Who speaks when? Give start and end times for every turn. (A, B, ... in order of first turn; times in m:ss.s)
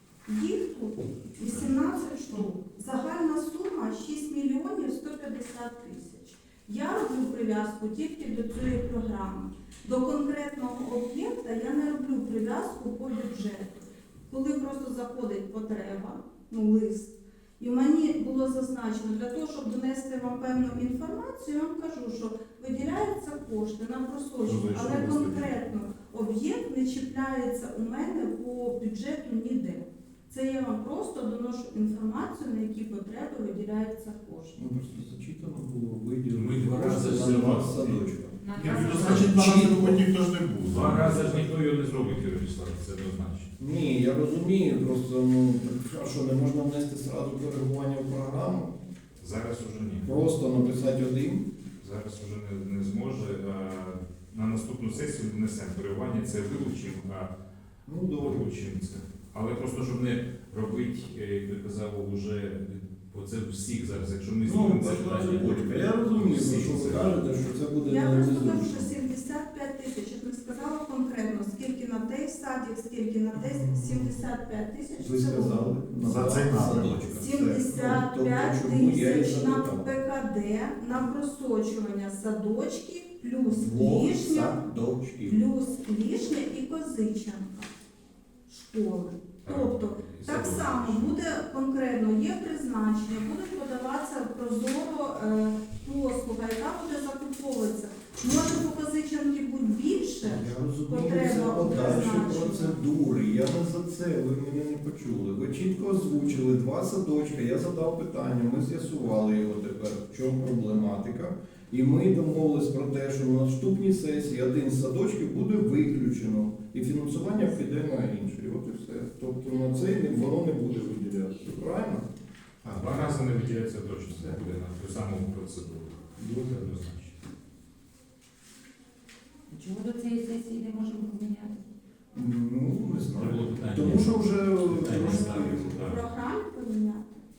0:00.2-0:34.6 A
0:24.4-0:25.6 B
0:34.6-0:40.0 C
0:36.3-0:38.0 D
0:38.4-0:39.4 E
0:38.5-0:41.4 B
0:39.3-0:39.7 D
0:40.6-0:43.5 D
0:43.6-0:48.7 C
0:49.2-0:50.1 D
0:50.0-0:51.5 C
0:51.8-0:57.3 D
0:57.9-0:58.5 C
0:58.2-1:07.2 D
1:04.4-1:08.9 C
1:07.9-1:15.8 A
1:13.3-1:14.2 C
1:15.0-1:19.9 C
1:16.0-1:17.1 B
1:17.1-1:24.6 A
1:23.5-1:25.4 C
1:25.2-1:27.7 A
1:28.5-1:42.8 A
1:29.4-1:31.2 D
1:40.2-2:02.1 C
2:02.6-2:07.2 D
2:02.6-2:03.0 B
2:04.1-2:04.6 C
2:09.5-2:11.6 E
2:12.1-2:15.8 C
2:13.1-2:16.0 D
2:15.0-2:17.2 A